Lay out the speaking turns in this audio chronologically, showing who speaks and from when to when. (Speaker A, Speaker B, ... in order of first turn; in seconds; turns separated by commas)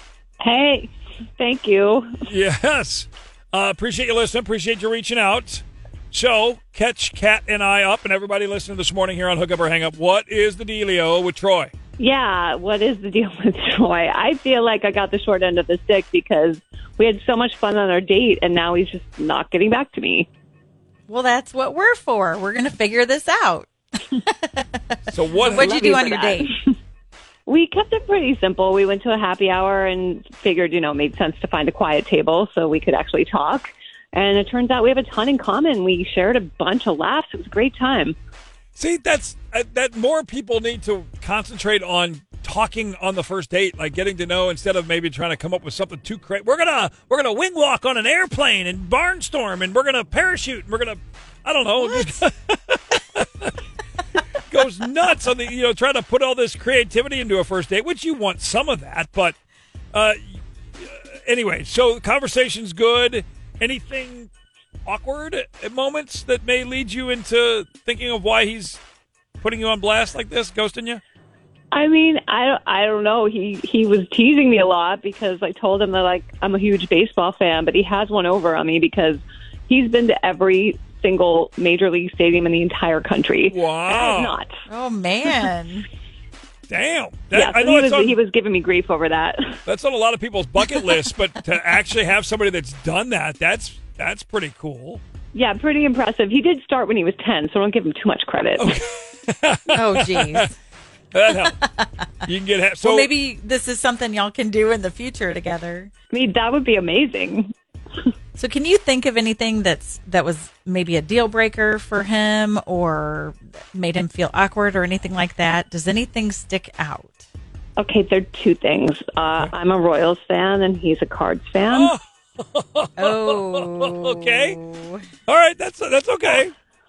Speaker A: 0.4-2.1, Speaker B: 2.2-11.7, Speaker A: 12.0-20.3, Speaker C: 21.1-26.5, Speaker B: 25.1-25.7, Speaker A: 25.5-26.5, Speaker A: 27.5-38.2, Speaker B: 38.8-53.5, Speaker C: 51.8-52.1, Speaker B: 54.5-59.4, Speaker B: 59.9-64.3, Speaker B: 64.8-68.8, Speaker B: 69.4-71.0, Speaker A: 71.7-84.5, Speaker B: 83.5-84.4, Speaker C: 84.7-85.8, Speaker B: 86.7-88.2, Speaker A: 87.3-89.6, Speaker B: 89.7-95.0, Speaker A: 95.3-98.7, Speaker B: 98.5-100.5, Speaker C: 99.7-100.5, Speaker B: 101.1-101.6, Speaker C: 101.5-102.0, Speaker B: 102.2-103.1, Speaker C: 102.8-105.9, Speaker A: 106.1-107.5, Speaker C: 108.3-117.2, Speaker A: 117.8-121.9, Speaker B: 121.7-124.6, Speaker C: 123.0-125.1, Speaker B: 125.3-126.5